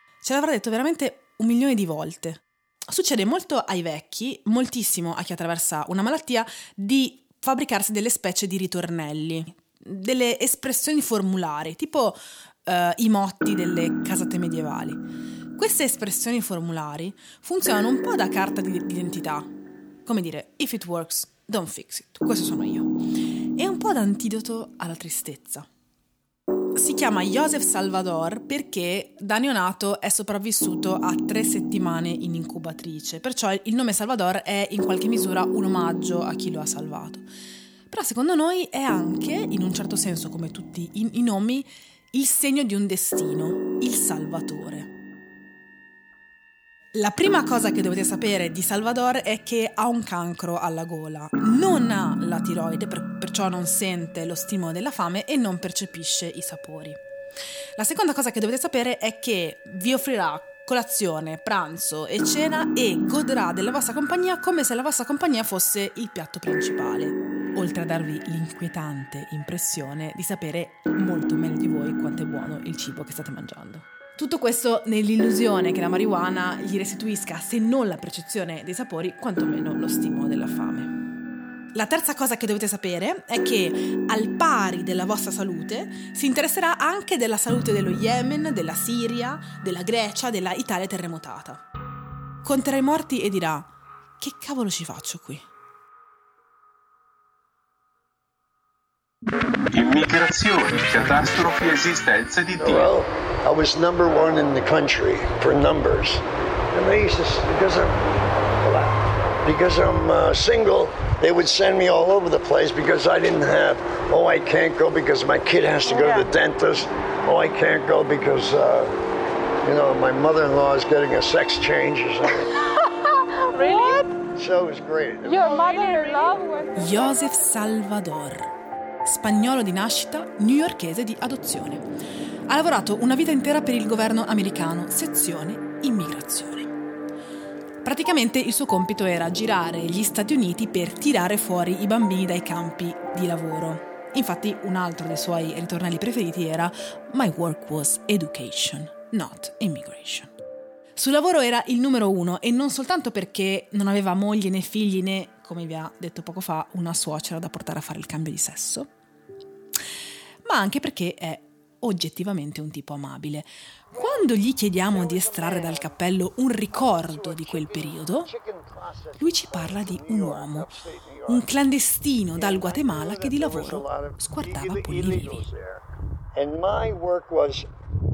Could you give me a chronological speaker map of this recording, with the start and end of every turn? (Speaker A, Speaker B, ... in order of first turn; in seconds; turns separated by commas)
Speaker A: 0.2-15.0, Speaker A: 15.6-19.5, Speaker A: 20.1-23.0, Speaker A: 23.5-25.7, Speaker A: 26.8-37.2, Speaker A: 37.9-44.9, Speaker A: 46.9-57.0, Speaker A: 57.8-80.9, Speaker A: 81.7-91.6, Speaker A: 92.4-95.5, Speaker B: 99.7-102.9, Speaker C: 102.6-108.0, Speaker C: 108.6-118.9, Speaker C: 119.6-122.7, Speaker D: 123.4-124.1, Speaker C: 124.2-125.5, Speaker D: 125.3-126.8, Speaker A: 126.7-128.5, Speaker A: 129.0-131.8, Speaker A: 132.5-136.7, Speaker A: 137.8-150.3, Speaker A: 150.9-158.9, Speaker A: 160.4-168.3, Speaker C: 164.8-166.0, Speaker C: 166.7-171.5, Speaker A: 169.2-170.7, Speaker A: 171.3-175.4, Speaker C: 172.3-175.8, Speaker C: 176.3-177.7